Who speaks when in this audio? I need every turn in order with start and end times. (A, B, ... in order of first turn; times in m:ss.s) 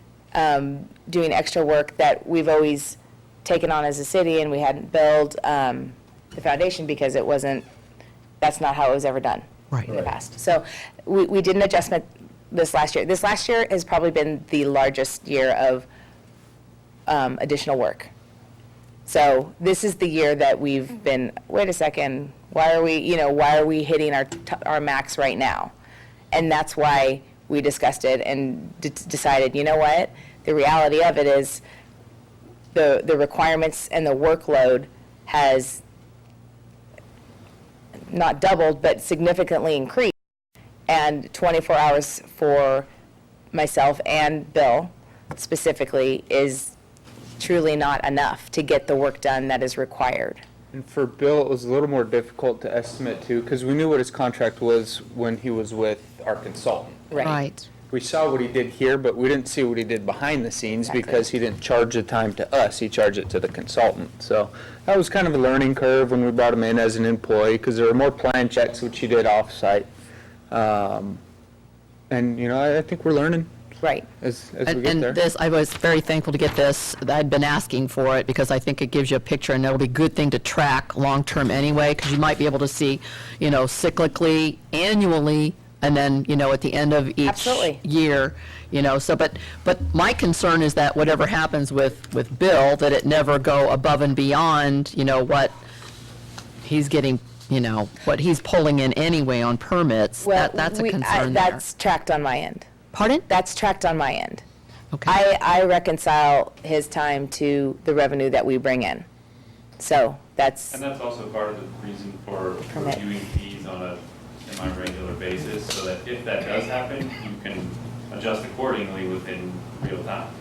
0:00.3-0:07.6 A
0:08.4-0:15.8 A
0:17.1-0:18.1 A
0:19.0-0:25.7 A
0:26.3-0:31.6 A
0:32.7-0:35.8 A
0:38.1-0:40.1 A
0:40.9-0:42.9 A
0:43.5-0:46.7 A
0:47.4-0:50.4 A
0:50.7-0:57.2 B
0:57.1-0:57.4 A
0:57.2-0:57.6 C
0:57.9-1:09.9 B
1:00.8-1:01.3 A
1:10.5-1:11.2 B
1:12.1-1:13.5 B
1:13.8-1:14.1 A
1:14.2-1:15.2 B
1:14.6-1:35.5 C
1:27.2-1:27.8 A
1:36.6-1:41.6 C
1:40.2-1:42.7 A
1:42.9-1:43.3 C
1:43.3-1:44.4 A
1:45.0-1:49.0 A
1:49.8-1:50.8 A
1:50.7-2:00.3 D
1:52.7-1:53.0 A